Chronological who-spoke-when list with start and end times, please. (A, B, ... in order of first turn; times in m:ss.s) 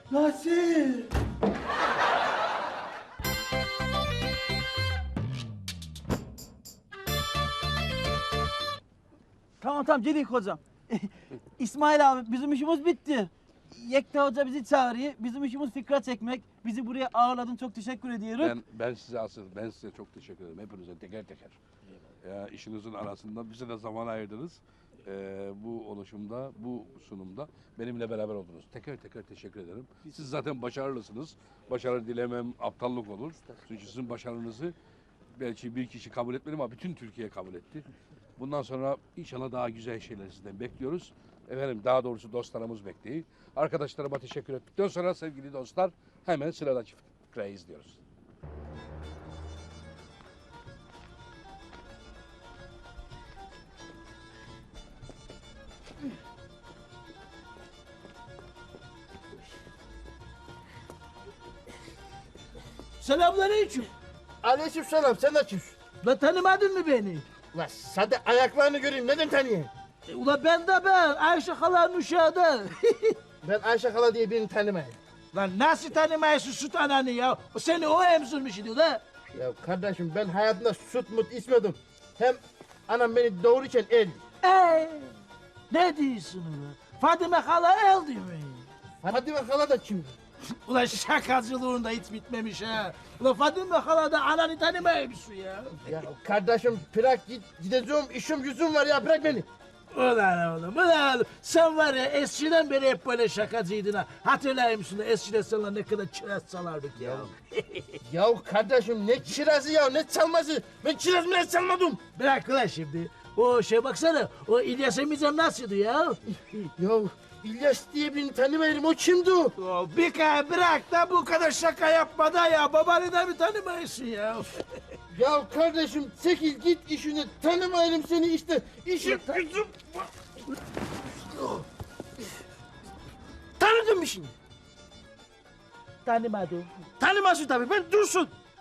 0:00.1-0:01.1 A
0:09.6-0:18.5 A
0:18.4-0:21.6 B
0:22.2-0:34.7 B
0:35.4-0:48.0 B
1:03.0-1:03.9 C
1:04.4-1:05.7 D
1:06.0-1:07.2 C
1:07.5-1:09.7 D
1:10.1-1:13.2 C
1:13.4-1:15.0 D
1:15.3-1:19.0 C
1:19.3-1:24.2 D
1:24.4-1:25.1 C
1:25.7-1:28.7 C
1:29.0-1:30.1 D
1:30.6-1:35.9 C
1:35.9-1:39.4 D
1:39.9-1:48.0 C
1:48.1-1:52.0 D
1:52.0-1:56.2 C
1:56.6-1:59.5 D
1:59.6-2:04.6 C
2:05.1-2:09.5 D
2:09.0-2:09.9 C
2:11.3-2:11.6 C
2:13.6-2:14.3 C
2:16.0-2:18.3 C